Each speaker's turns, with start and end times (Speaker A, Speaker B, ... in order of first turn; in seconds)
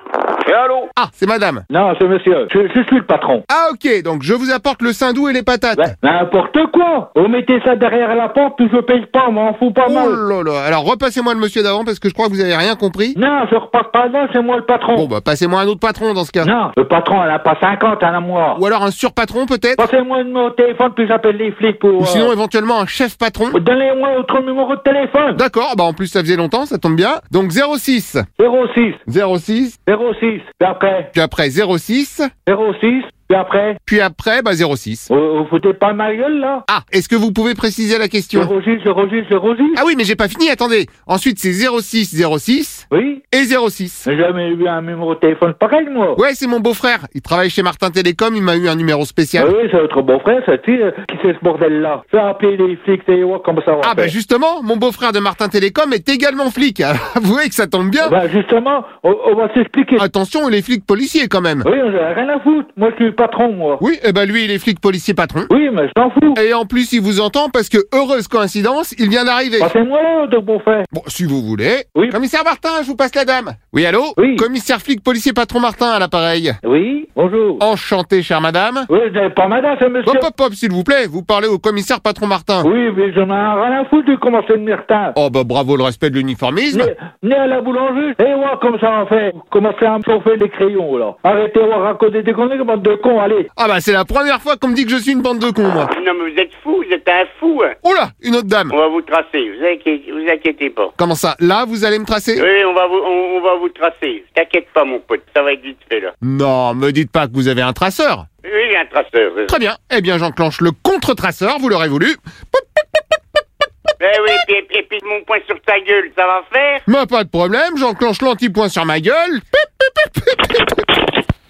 Speaker A: 0.9-1.6, 3.5-5.9, 9.8-13.2, 14.9-16.5, 18.5-19.9, 22.0-23.6, 25.3-28.2, 29.1-29.8, 31.1-32.3, 33.9-35.1, 36.7-38.5, 39.7-44.0, 46.2-49.5, 53.8-58.1, 60.0-61.7, 63.8-65.5, 66.3-69.7, 70.9-76.6, 77.6-78.9, 80.0-82.7, 85.1-86.9, 93.5-95.9, 97.8-98.8, 101.0-102.5, 106.2-108.3, 109.5-112.6, 116.8-119.4
Speaker B: 1.7-3.4, 5.8-10.2, 13.1-15.1, 16.4-18.6, 19.8-22.3, 23.5-25.4, 28.4-29.0, 29.9-31.1, 32.5-33.8, 35.1-36.6, 38.3-39.8, 42.9-43.2, 44.0-46.2, 49.4-54.1, 58.0-60.0, 61.6-63.8, 65.5-66.4, 69.6-70.9, 74.2-74.5, 76.6-77.6, 78.9-80.3, 82.6-85.1, 86.7-93.5
Speaker C: 95.9-97.7, 98.7-100.9, 102.3-106.1, 108.4-109.5, 114.0-116.8